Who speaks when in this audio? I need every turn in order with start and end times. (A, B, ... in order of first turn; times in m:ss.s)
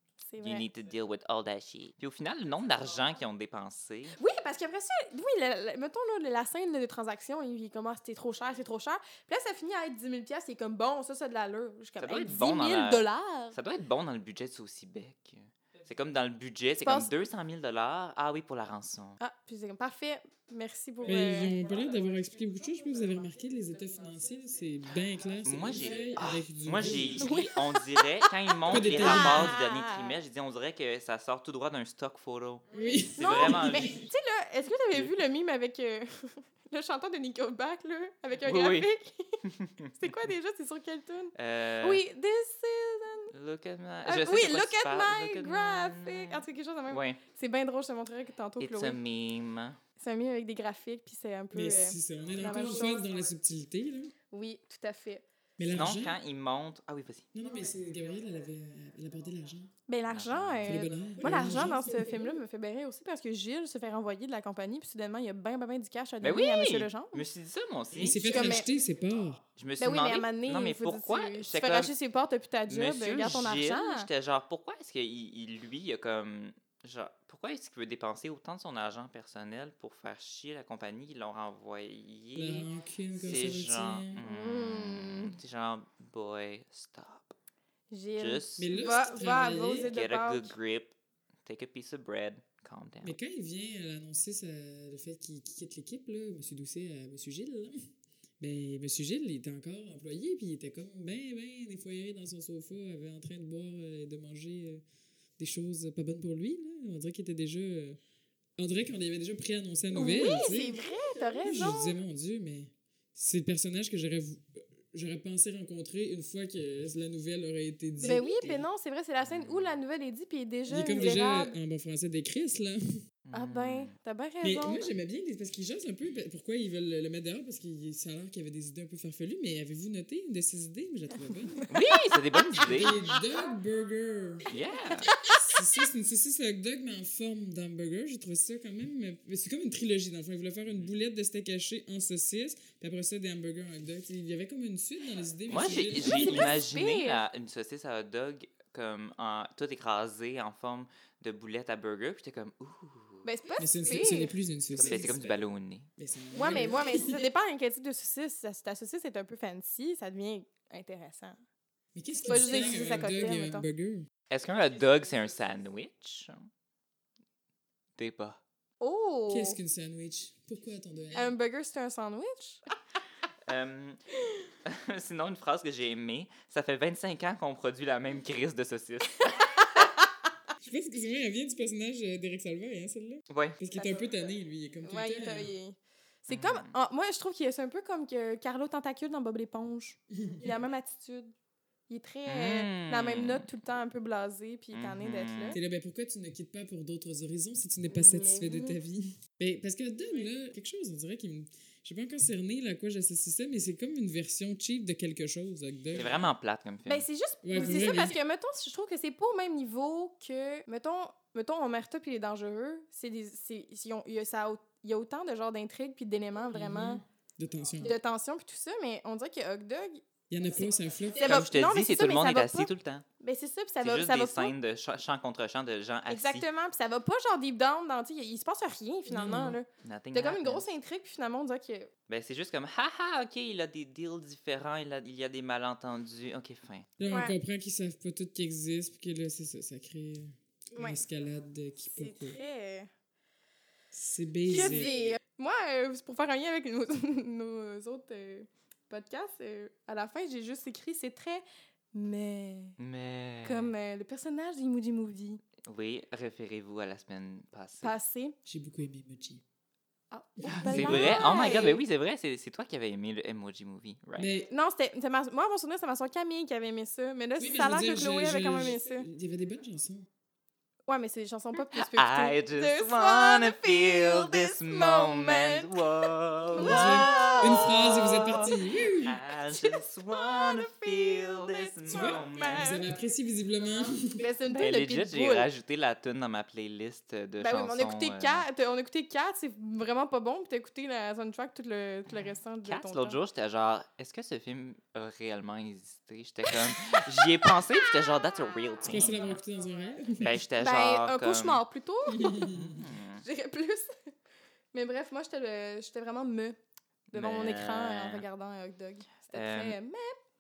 0:00.2-0:00.7 A
0:00.4-0:04.2 B
0:04.2-0:13.6 A
0:12.0-0:19.2 B
0:16.8-0:17.1 A
0:19.2-0:21.6 A
0:21.0-0:27.3 C
0:25.4-0:34.0 B
0:27.2-0:30.2 A
0:28.7-0:29.5 C
0:32.7-0:34.0 C
0:33.2-0:39.4 A
0:38.4-0:38.9 B
0:39.4-0:40.1 B
0:40.0-0:43.3 A
0:41.4-0:42.0 B
0:43.3-0:47.2 B
0:44.0-0:49.0 A
0:48.6-0:49.8 B
0:50.0-0:53.0 A
0:51.5-0:54.1 C
0:54.3-0:55.2 A
0:55.6-0:56.2 C
0:55.7-0:57.3 B
0:57.3-0:59.7 C
0:59.9-1:07.3 A
1:00.1-1:00.8 B
1:00.6-1:02.2 C
1:06.2-1:08.6 B
1:08.0-1:09.4 C
1:08.2-1:08.7 A
1:09.6-1:11.9 B
1:09.8-1:14.1 A
1:12.7-1:22.7 B
1:22.4-1:24.2 C
1:23.2-1:27.3 B
1:24.2-1:25.4 A
1:27.9-1:30.5 A
1:28.2-1:30.9 B
1:28.6-1:29.9 C
1:31.4-1:33.2 B
1:33.0-1:37.9 C
1:38.4-1:44.8 C
1:45.4-1:48.0 C
1:48.6-1:50.8 C
1:49.9-1:52.0 A
1:51.4-1:58.7 C
1:58.0-2:01.6 A
1:59.2-1:59.8 B
2:00.7-2:03.0 C
2:03.3-2:04.0 B
2:03.3-2:04.9 A
2:04.4-2:11.7 C
2:11.7-2:13.0 B
2:12.6-2:14.5 C
2:14.5-2:15.1 B
2:14.9-2:15.6 A
2:15.5-2:26.6 C
2:25.5-2:33.3 B
2:26.1-2:27.2 A
2:33.2-2:34.3 A
2:33.6-2:35.3 C
2:34.7-2:35.9 B
2:36.0-2:37.3 C
2:36.3-2:41.4 A
2:42.0-2:44.1 C
2:42.2-2:43.7 A
2:44.3-2:46.5 B
2:48.0-2:48.4 B
2:48.8-2:49.6 A
2:49.3-2:51.3 C
2:51.1-2:52.6 A
2:53.5-2:54.0 B
2:54.6-2:59.8 B
2:59.3-3:00.0 A
3:00.6-3:05.5 C
3:03.3-3:03.6 B
3:03.7-3:04.0 A
3:04.8-3:11.3 A
3:06.3-3:06.8 B
3:10.2-3:10.5 C
3:11.9-3:15.6 A
3:12.3-3:13.5 B
3:14.7-3:15.6 B
3:15.5-3:26.2 C
3:17.9-3:18.8 A
3:25.9-3:27.1 B
3:26.9-3:37.0 A
3:27.4-3:28.2 C
3:36.5-3:38.0 C
3:37.8-3:40.0 A
3:40.3-3:41.4 C
3:40.6-3:42.7 A
3:41.2-3:43.0 B
3:43.2-3:44.5 A
3:43.8-3:46.5 B
3:46.1-3:51.9 A
3:49.1-3:49.6 C
3:49.8-3:50.7 B
3:52.1-3:56.9 B
3:57.0-4:02.4 C
3:57.1-3:57.4 A
4:00.8-4:01.0 A
4:01.9-4:02.9 A
4:03.9-4:05.1 C
4:04.5-4:12.8 A
4:12.8-4:13.7 B
4:13.4-4:15.4 A
4:15.6-4:18.0 B
4:17.8-4:18.4 A
4:18.5-4:19.4 C
4:20.1-4:21.8 A
4:20.4-4:21.7 C
4:20.6-4:24.3 B
4:24.2-4:24.5 C
4:24.5-4:29.1 A
4:27.4-4:30.1 C
4:30.9-4:38.5 A
4:31.7-4:38.4 B
4:36.6-4:39.2 C
4:39.0-4:42.8 B
4:39.5-4:42.8 A
4:41.9-4:44.2 C
4:44.2-4:45.5 A
4:44.5-4:48.4 B
4:47.4-4:53.2 A
4:52.6-4:59.4 B
4:58.8-5:00.4 C
5:00.2-5:01.6 B
5:00.6-5:02.5 A
5:02.1-5:02.8 C
5:02.5-5:03.2 B
5:03.2-5:04.1 A
5:04.7-5:06.6 A
5:07.1-5:08.2 B
5:07.1-5:10.2 A
5:09.3-5:09.8 B